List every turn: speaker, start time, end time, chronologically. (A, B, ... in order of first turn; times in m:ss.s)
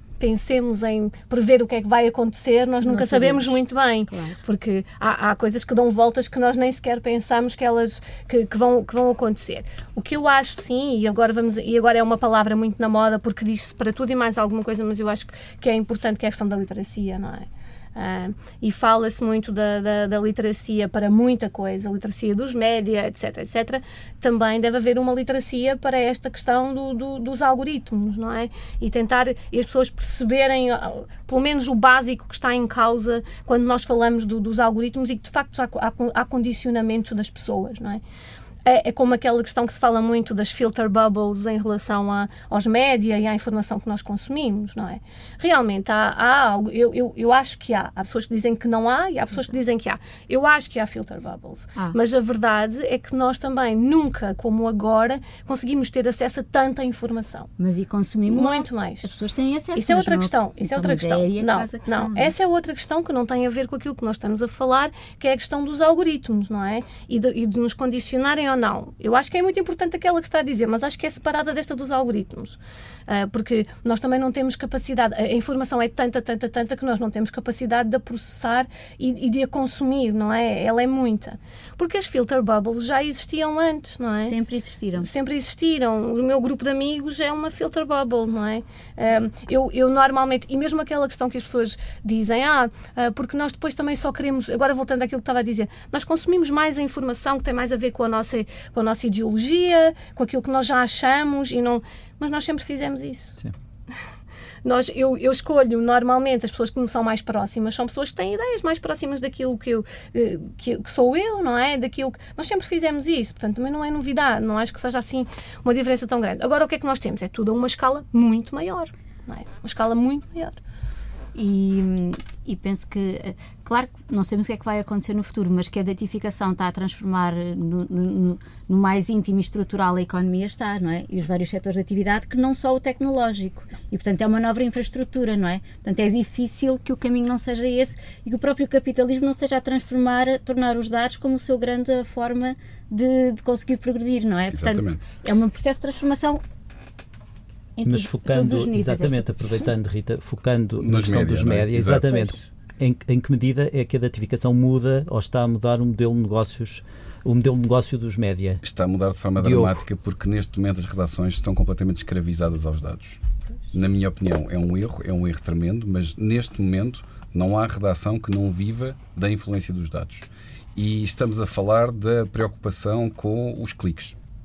0:00.2-0:38.0 A
0:02.8-0:04.4 B
0:38.6-0:57.5 A
0:57.6-1:02.3 B
0:58.3-0:59.1 A
0:59.7-1:24.4 A
1:24.2-1:25.1 B
1:25.0-1:43.4 A
1:44.6-2:00.6 A
2:01.3-2:26.4 B
2:24.5-2:25.0 C
2:27.8-2:29.6 B
2:27.8-2:38.6 D
2:30.8-2:32.2 C
2:32.1-2:32.4 B
2:38.6-2:43.2 C
2:39.4-2:39.8 D
2:43.7-2:54.2 C